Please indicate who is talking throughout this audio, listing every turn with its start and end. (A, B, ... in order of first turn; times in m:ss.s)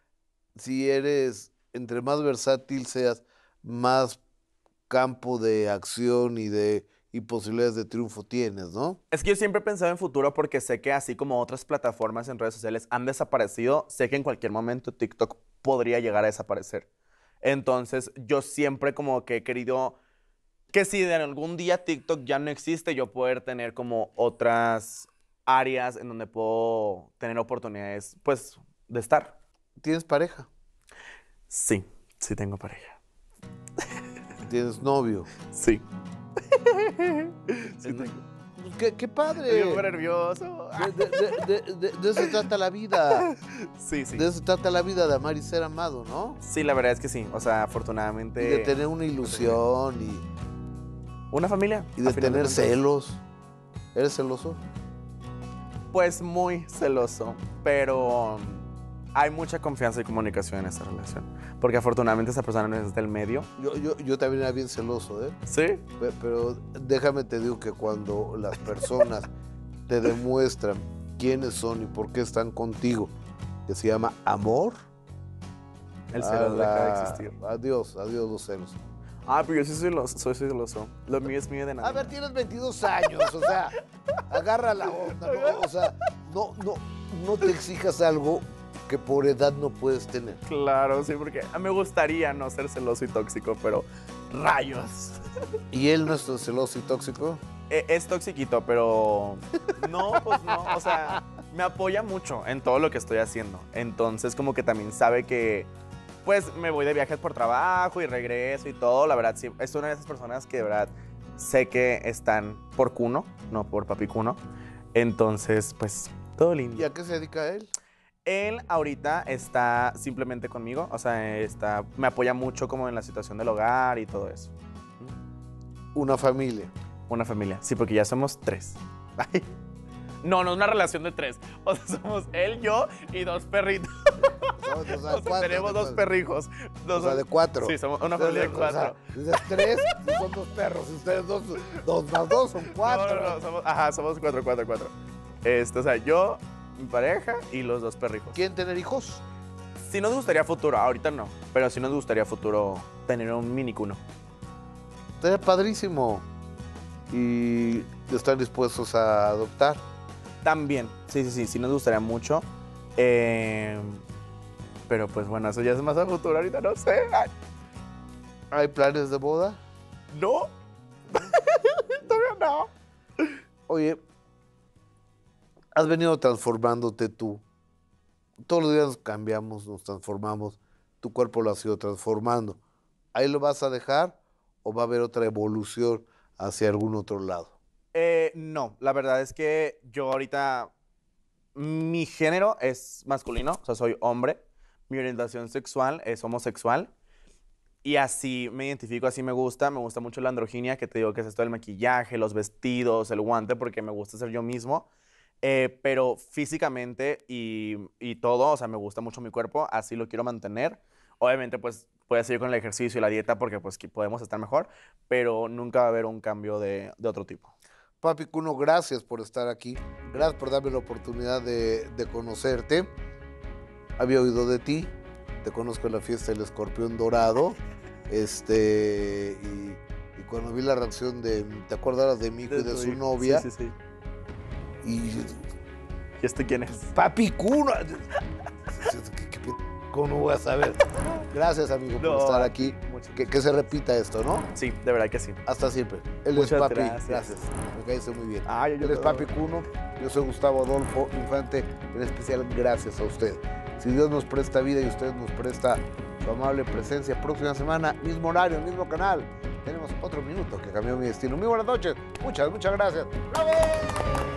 0:00.6-0:04.2 A
0:04.9-0:09.0 A
0:09.1-0:16.9 B
0:17.4-0:20.0 B
0:20.7-0:29.4 B
0:29.8-0:30.5 A
0:31.5-0:33.0 B
0:34.4-0:35.3 A
0:35.5-0:35.8 B
0:36.5-0:38.2 B
0:37.8-0:39.9 A
0:39.4-0:41.3 B
0:40.8-0:43.3 A
0:43.1-0:44.3 B
0:44.2-0:46.4 A
0:46.4-0:49.6 B
0:48.4-0:50.2 A
0:51.3-0:52.8 B
0:52.0-0:53.2 A
0:53.9-0:54.6 A
0:55.9-1:03.5 B
1:03.6-1:05.4 A
1:05.5-1:05.8 B
1:06.0-1:09.3 A
1:09.9-1:13.1 A
1:13.7-1:14.8 A
1:16.1-1:17.3 B
1:16.2-1:18.8 A
1:19.3-1:22.1 B
1:21.8-1:23.7 A
1:23.0-1:23.5 B
1:24.3-1:30.4 A
1:24.8-1:25.7 B
1:30.5-1:35.2 B
1:35.7-1:37.4 A
1:37.7-1:45.7 B
1:40.1-1:41.2 A
1:46.2-1:54.4 B
1:54.9-1:56.9 B
1:56.8-1:57.7 A
1:58.2-2:05.2 B
2:05.9-2:06.7 A
2:07.1-2:09.5 B
2:10.2-2:20.0 B
2:14.6-2:16.0 A
2:17.0-2:23.4 A
2:22.7-2:28.4 B
2:28.3-2:29.2 A
2:29.8-2:34.0 B
2:35.2-2:36.3 A
2:37.1-2:39.8 A
2:40.4-2:42.4 B
2:43.0-2:44.0 B
2:44.9-2:47.3 B
2:48.5-2:49.6 A
2:50.1-2:50.5 B
2:51.1-2:53.4 B
2:53.7-2:54.0 A
2:55.8-2:57.4 A
2:58.5-3:02.6 A
3:03.1-3:07.5 A
3:07.9-3:10.7 B
3:11.6-3:16.9 B
3:17.8-3:24.9 B
3:25.4-3:37.6 B
3:38.0-3:42.9 A
3:44.0-3:47.6 A
3:48.1-3:53.5 A
3:52.5-3:53.8 B
3:54.8-3:55.4 A
3:56.2-3:56.9 B
3:57.0-3:58.1 A
3:58.8-4:04.5 A
4:02.0-4:03.3 B
4:04.6-4:05.4 B
4:05.5-4:24.2 A
4:06.3-4:07.4 B
4:08.4-4:09.3 B